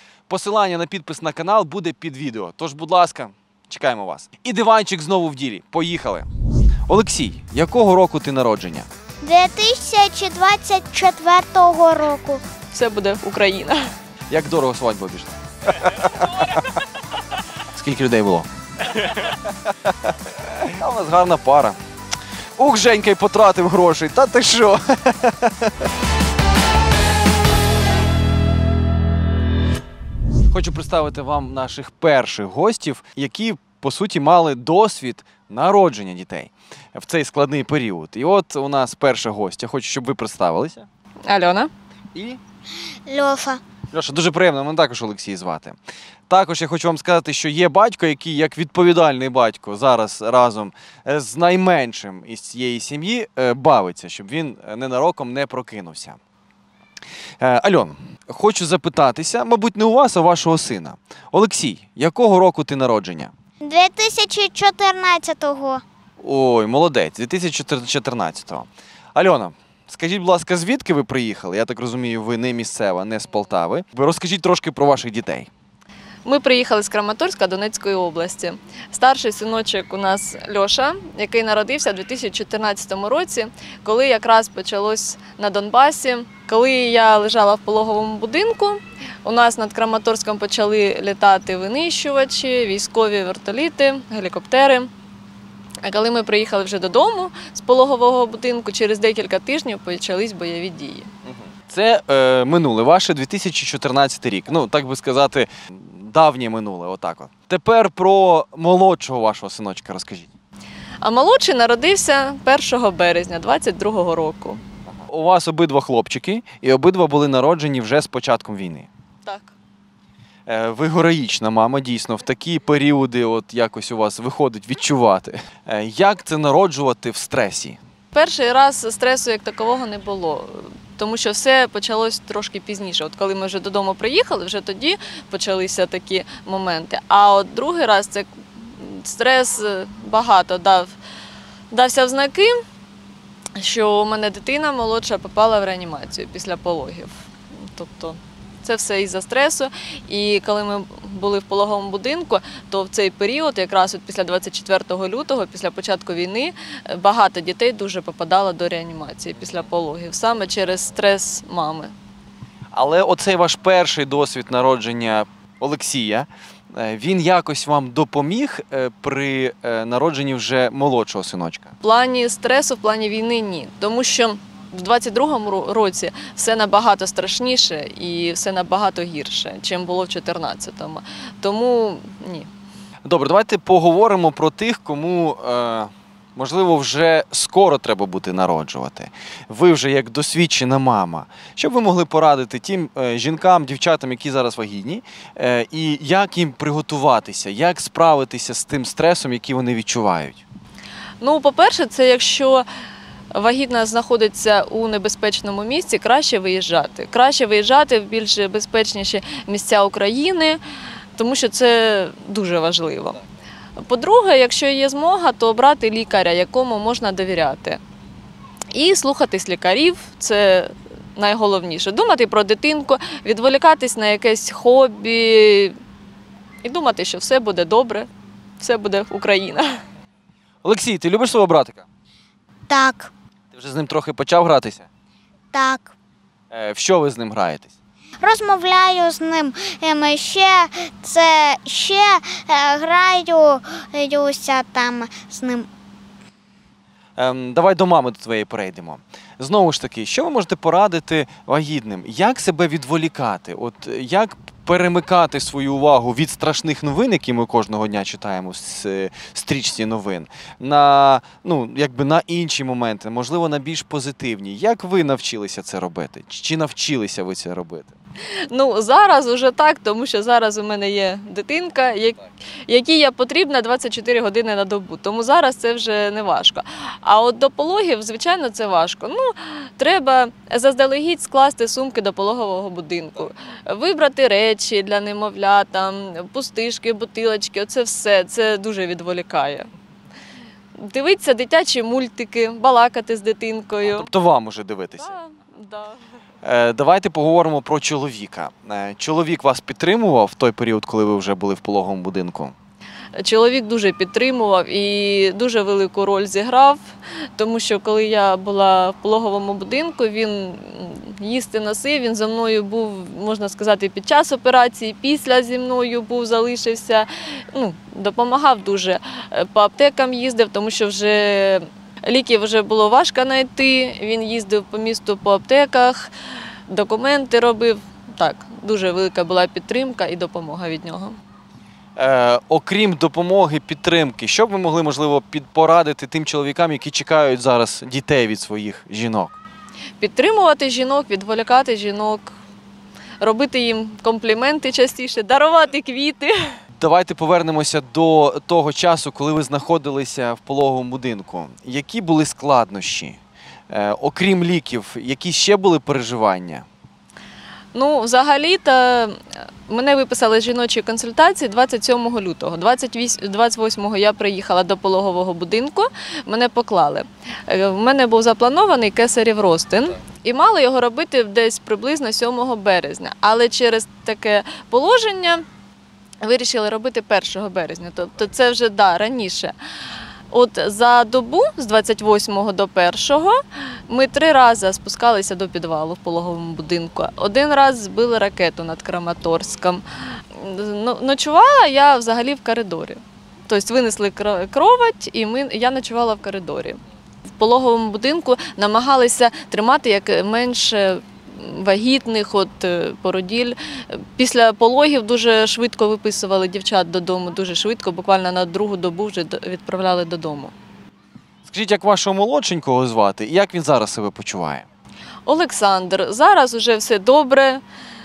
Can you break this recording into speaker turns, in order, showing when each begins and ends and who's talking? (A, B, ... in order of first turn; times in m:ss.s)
0:00.3-0:06.3 A
0:06.9-0:08.9 A
0:09.2-0:12.4 B
0:12.7-0:13.8 C
0:14.3-0:16.7 A
0:17.7-0:18.5 A
0:20.4-0:21.8 A
0:22.6-0:25.7 A
0:30.5-0:40.9 A
0:41.3-0:41.7 C
0:42.1-0:42.4 A
0:43.1-0:43.6 B
0:43.9-0:45.8 A
0:46.3-0:56.2 A
0:57.4-1:03.3 A
1:03.6-1:05.8 B
1:06.2-1:15.5 A
1:16.2-1:34.9 C
1:35.8-1:41.1 C
1:41.3-1:50.3 A
1:51.0-1:54.6 C
1:55.1-1:58.9 A
1:59.2-1:59.5 C
2:00.5-2:07.8 A
2:08.1-2:20.9 C
2:21.7-2:22.5 C
2:23.6-2:27.1 C
2:27.7-2:41.9 C
2:42.7-2:51.7 A
2:51.8-3:02.5 C
3:03.0-3:20.4 A
3:21.2-3:22.6 C
3:23.3-3:30.6 C
3:31.2-3:33.2 C
3:33.8-3:37.8 C
3:38.7-3:45.7 C
3:46.6-3:48.1 C
3:48.6-3:49.7 C
3:50.6-3:51.9 A
3:52.7-3:53.1 B
3:53.5-3:54.9 A
3:55.5-3:55.9 B
3:56.5-3:57.7 A
3:58.2-4:05.7 B
4:07.2-4:27.9 A
4:28.5-4:49.6 C
4:50.8-4:54.1 C
4:53.8-4:55.2 A
4:55.0-4:56.0 C
4:56.4-5:02.5 A
5:03.2-5:06.8 C
5:07.4-5:26.1 C
5:26.7-5:31.2 C
5:32.0-5:39.4 A
5:40.0-5:42.3 C
5:43.2-5:46.5 C
5:46.8-5:53.2 A
5:53.7-5:56.6 A
5:57.7-5:59.1 C
5:59.7-6:15.4 C
6:16.2-6:19.5 C
6:20.3-6:23.4 C
6:23.9-6:36.8 C
6:37.4-6:50.5 C
6:51.4-6:54.6 A
6:55.2-6:57.6 C